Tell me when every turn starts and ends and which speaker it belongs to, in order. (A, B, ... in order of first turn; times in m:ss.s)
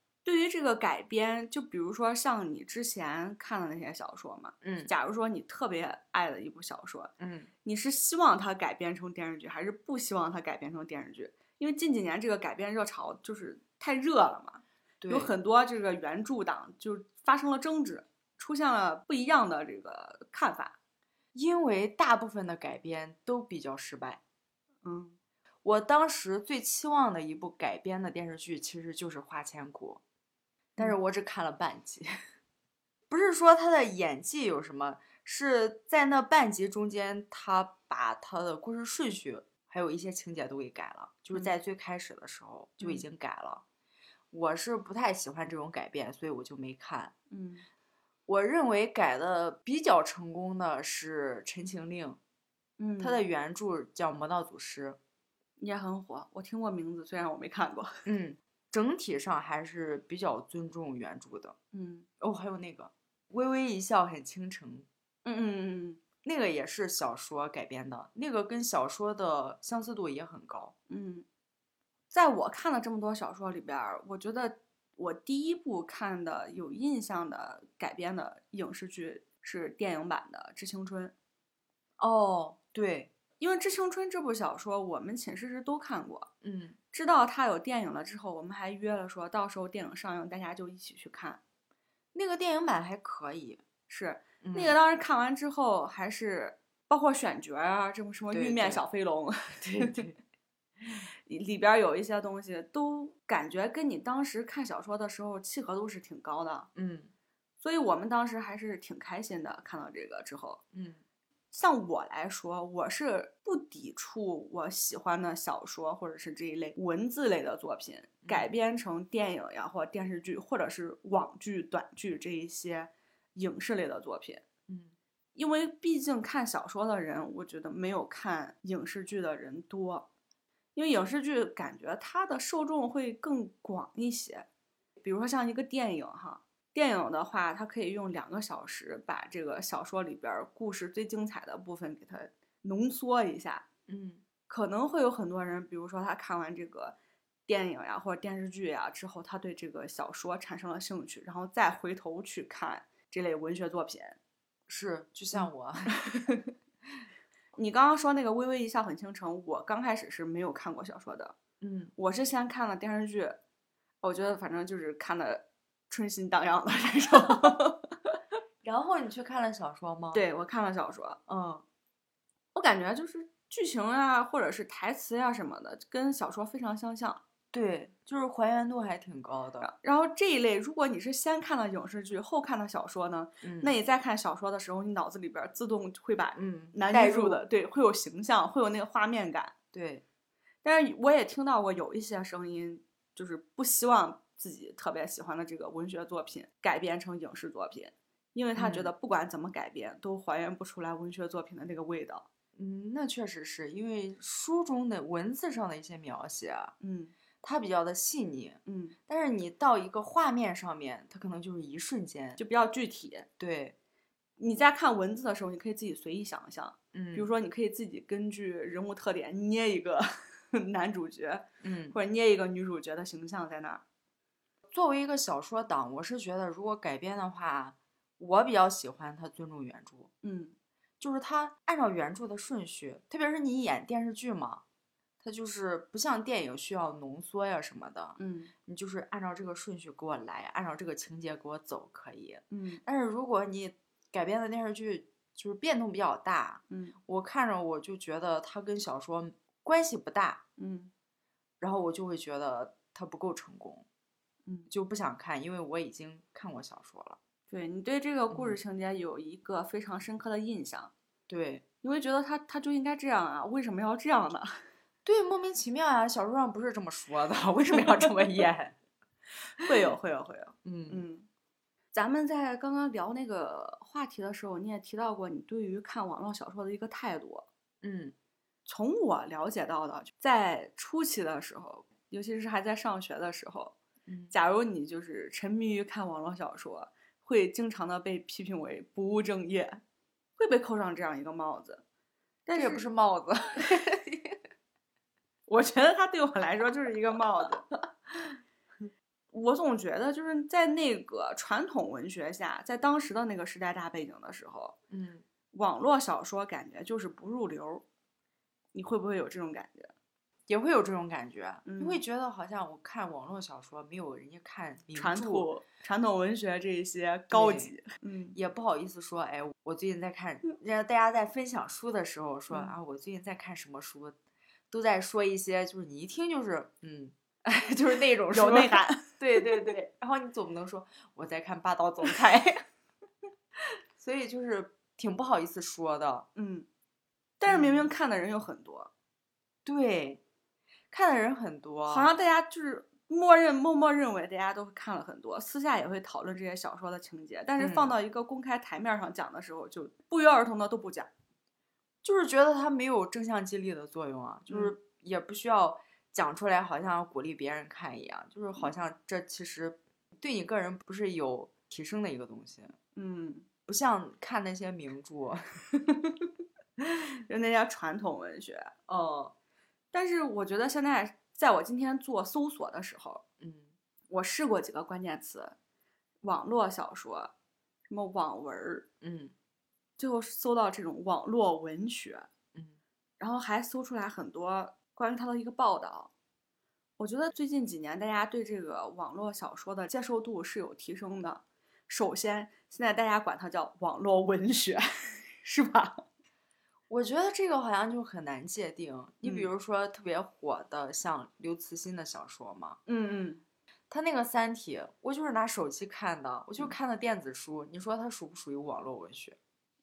0:00.2-0:07.1 A
0:04.6-0:04.9 B
0:07.2-0:07.5 B
0:07.6-0:20.8 A
0:15.0-0:15.3 B
0:21.3-0:24.2 B
0:24.8-0:25.2 A
0:25.6-0:30.0 B
0:30.8-0:32.1 B
0:33.1-0:43.6 B
0:42.8-0:43.0 A
0:44.3-0:47.1 B
0:47.3-0:47.6 A
0:48.3-0:52.2 B
0:52.8-0:53.2 A
0:53.0-0:55.0 B
0:55.6-0:58.0 A
0:58.1-1:01.6 B
1:01.7-1:02.1 A
1:02.2-1:04.9 B
1:05.2-1:06.0 A
1:06.2-1:10.8 B
1:10.9-1:11.2 A
1:12.1-1:21.1 A
1:22.0-1:23.1 B
1:23.4-1:26.3 A
1:26.4-1:26.8 B
1:26.9-1:31.4 A
1:32.1-1:33.6 B
1:33.9-1:40.1 A
1:34.4-1:34.8 B
1:38.3-1:38.8 B
1:39.6-1:40.2 B
1:41.3-1:46.7 A
1:46.8-1:47.1 B
1:47.6-1:50.6 A
1:50.7-1:51.0 B
1:51.5-2:04.5 A
1:58.2-1:58.5 B
2:04.7-2:04.9 B
2:05.4-2:10.1 A
2:10.8-2:14.5 A
2:15.0-2:23.7 A
2:23.9-2:24.2 B
2:24.5-2:27.0 A
2:27.5-2:34.2 A
2:34.7-2:36.0 B
2:36.0-2:36.5 A
2:37.6-2:41.4 A
2:41.6-2:41.9 B
2:42.0-2:43.4 A
2:44.0-2:47.9 A
2:48.6-2:50.2 B
2:50.1-2:51.2 A
2:51.3-2:51.6 B
2:52.5-2:57.2 A
2:57.5-2:59.7 B
2:59.6-3:09.5 A
3:03.4-3:03.7 B
3:06.4-3:07.4 B
3:09.7-3:10.0 B
3:10.6-3:22.3 A
3:18.6-3:18.9 B
3:22.6-3:26.7 B
3:26.8-3:27.1 A
3:27.4-3:32.4 B
3:28.7-3:29.0 A
3:32.4-3:33.3 A
3:33.4-3:33.8 B
3:34.4-3:43.8 A
3:36.9-3:37.3 B
3:41.6-3:42.0 B
3:44.7-3:50.1 B
3:50.2-3:50.5 A
3:51.0-3:54.6 B
3:55.2-4:10.4 B
3:58.2-3:58.5 A
4:02.5-4:02.8 A
4:06.7-4:07.0 A
4:10.6-4:10.9 A
4:11.6-4:13.9 B
4:14.7-4:17.2 B
4:17.5-4:20.9 A
4:18.3-4:18.6 B
4:21.3-4:21.6 B
4:21.8-4:24.6 A
4:25.0-4:28.8 B
4:27.8-4:28.1 A
4:29.6-4:31.3 A
4:30.6-4:31.0 B
4:31.9-4:37.5 A
4:37.8-4:38.1 B
4:38.7-4:43.8 A
4:44.1-4:44.3 B
4:44.3-4:49.8 A
4:50.4-4:51.8 A
4:52.5-4:52.8 A
4:52.5-4:54.4 B
4:55.5-4:57.6 A
4:58.1-4:58.4 B
4:59.3-5:04.8 A
5:04.9-5:05.2 B
5:05.5-5:07.8 A
5:08.7-5:09.9 A
5:10.5-5:15.5 B
5:11.6-5:12.0 A
5:14.9-5:18.4 A
5:17.3-5:17.7 B
5:18.3-5:24.2 B
5:24.7-5:32.5 B
5:28.3-5:29.2 A
5:32.0-5:32.5 A
5:33.6-5:36.3 B
5:36.4-5:36.7 A
5:37.4-5:38.9 A
5:37.5-5:37.9 B
5:39.6-5:40.2 B
5:40.9-5:42.1 B
5:41.9-5:51.1 A
5:47.6-5:48.0 B
5:52.0-6:02.8 B
5:54.5-5:54.8 A
6:03.0-6:03.5 A
6:03.7-6:05.6 B
6:05.9-6:06.2 A
6:07.3-6:08.7 A
6:08.9-6:09.3 B
6:09.9-6:13.2 A
6:13.4-6:13.7 B
6:14.1-6:15.6 A
6:16.2-6:17.3 A
6:17.9-6:18.9 A
6:19.0-6:19.3 B
6:20.0-6:22.3 A
6:23.2-6:26.1 A
6:27.0-6:36.0 A
6:36.9-6:42.8 B
6:39.2-6:39.5 A
6:42.9-6:43.4 A
6:43.9-6:49.4 B